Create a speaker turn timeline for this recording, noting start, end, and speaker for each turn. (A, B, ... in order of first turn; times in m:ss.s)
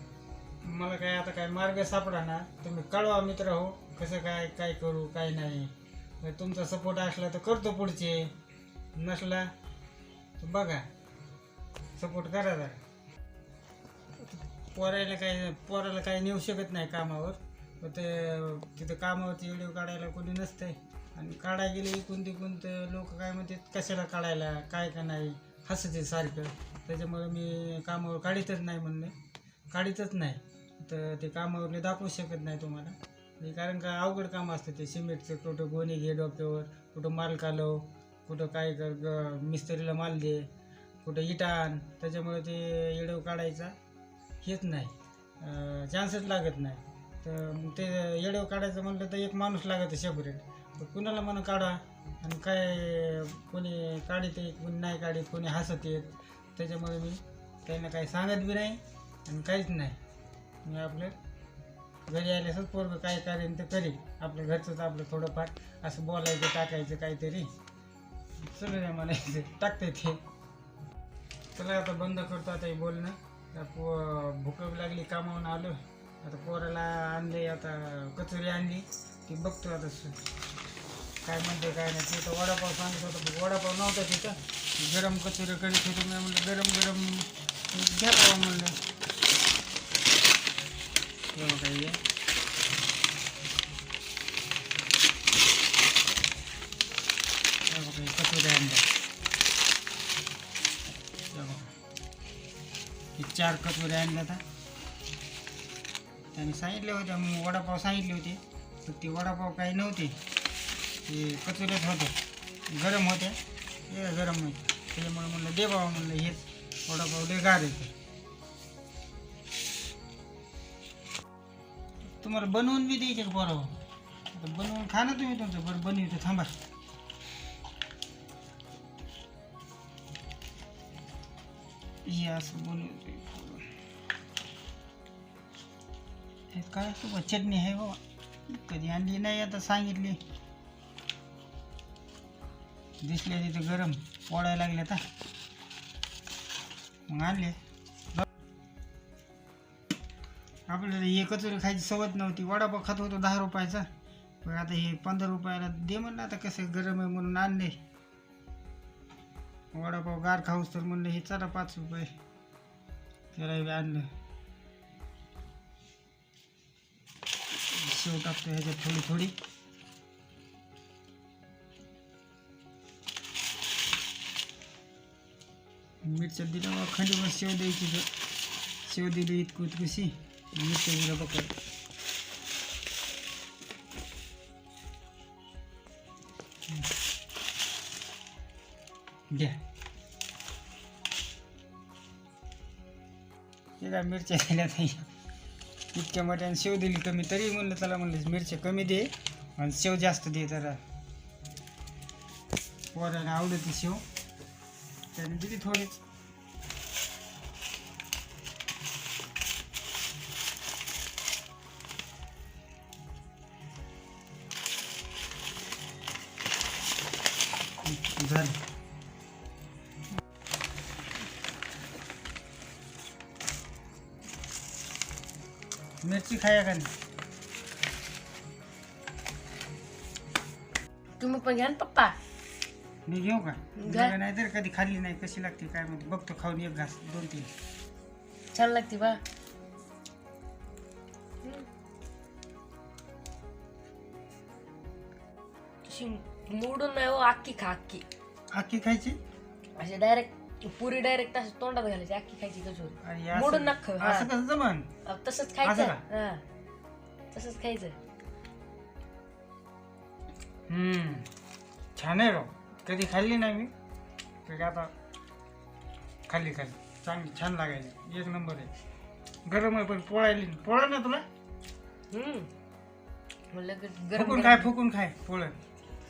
0:00.6-0:08.3 A
0:09.0-0:09.5 A
0:10.4-0:10.9 A
0:12.0-0:12.8 A
0:14.7-0:29.2 A
0:29.7-0:40.5 A
0:41.0-0:43.7 A
0:44.4-1:00.0 A
1:00.6-1:01.2 A
1:02.1-1:07.5 A
1:08.4-1:10.2 A
1:11.6-1:20.2 A
1:21.2-1:28.8 A
1:31.3-1:32.0 A
1:37.7-1:38.9 A
1:41.3-1:41.7 A
1:43.2-1:44.4 A
1:46.3-1:50.2 A
1:51.0-1:52.2 A
1:52.7-1:58.0 A
2:02.2-2:03.8 A
2:04.3-2:06.5 A
2:12.0-2:13.7 A
2:16.5-2:20.2 A
2:23.0-2:25.0 A
2:27.1-2:27.6 A
2:30.7-2:33.9 A
2:34.4-2:37.8 A
2:39.7-2:42.1 A
2:43.3-2:44.1 A
2:47.7-2:49.4 A
2:56.0-2:58.1 A
2:58.8-3:01.6 A
3:09.3-3:09.6 A
3:13.8-3:15.1 A
3:15.9-3:20.8 A
3:22.9-3:24.0 A
3:25.1-3:26.0 A
3:37.8-3:38.6 A
3:46.0-3:46.9 A
3:51.2-3:52.2 B
3:53.1-3:57.5 A
3:53.8-3:54.1 B
3:58.5-3:59.2 B
4:01.4-4:01.7 B
4:05.8-4:08.0 B
4:08.5-4:09.2 A
4:09.8-4:14.3 B
4:13.0-4:14.9 A
4:15.1-4:16.4 B
4:15.6-4:16.0 A
4:17.3-4:18.0 B
4:20.7-4:21.3 A
4:22.0-4:23.7 A
4:24.5-4:24.9 A
4:26.3-4:28.7 A
4:29.5-4:31.2 A
4:32.1-4:32.5 B
4:33.5-4:34.7 B
4:34.1-4:35.6 A